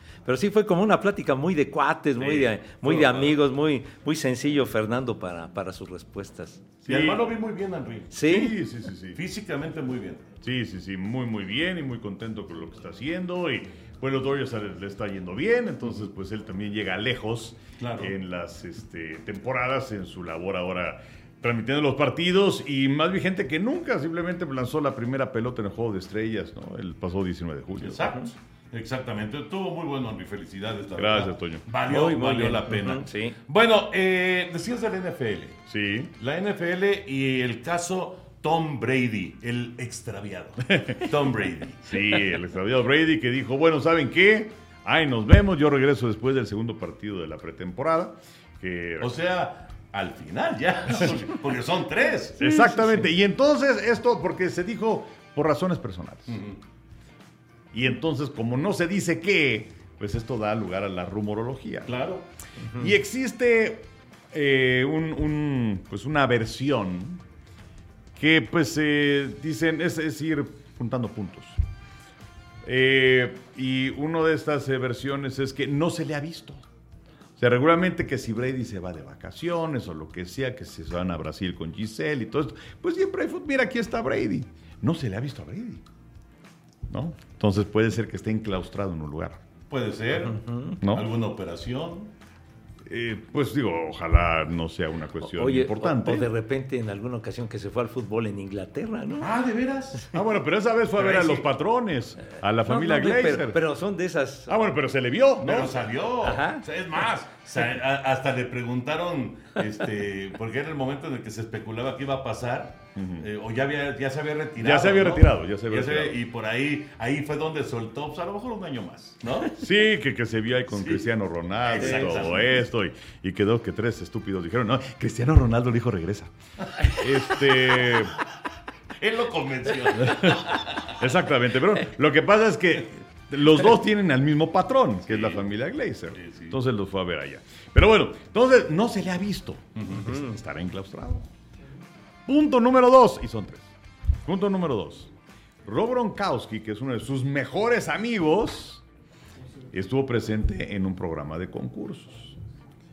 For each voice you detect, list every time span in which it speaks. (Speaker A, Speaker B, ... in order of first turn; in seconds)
Speaker A: 0.2-6.6, 8.1-8.6, 31.8-33.4, 52.4-53.1, 62.6-62.9, 90.1-90.8, 95.2-99.3, 102.6-104.7, 106.2-106.6
Speaker B: 2.2-3.4, 6.8-8.2, 9.2-10.3, 17.8-18.1, 27.8-35.6, 36.2-42.0, 49.0-52.4, 56.3-56.6, 61.9-62.2, 89.7-92.1, 99.2-100.1, 101.0-101.4, 105.4-119.5, 120.7-121.0, 121.6-122.6, 129.0-130.9, 135.1-135.4, 136.2-136.6, 139.8-140.2
Speaker C: 6.8-7.3, 8.2-9.2, 10.4-28.2, 30.9-31.6, 35.7-36.1, 41.9-49.1, 52.4-56.4, 57.7-62.0, 62.7-67.2, 68.1-71.6, 72.6-76.7, 77.4-85.8, 86.9-89.4, 90.8-91.1, 92.8-96.3, 100.1-103.6, 104.5-105.9, 113.0-113.2, 114.6-116.2, 119.5-126.3, 126.8-128.2, 129.9-141.3, 142.2-143.7, 144.2-145.1, 145.6-148.8, 149.7-152.4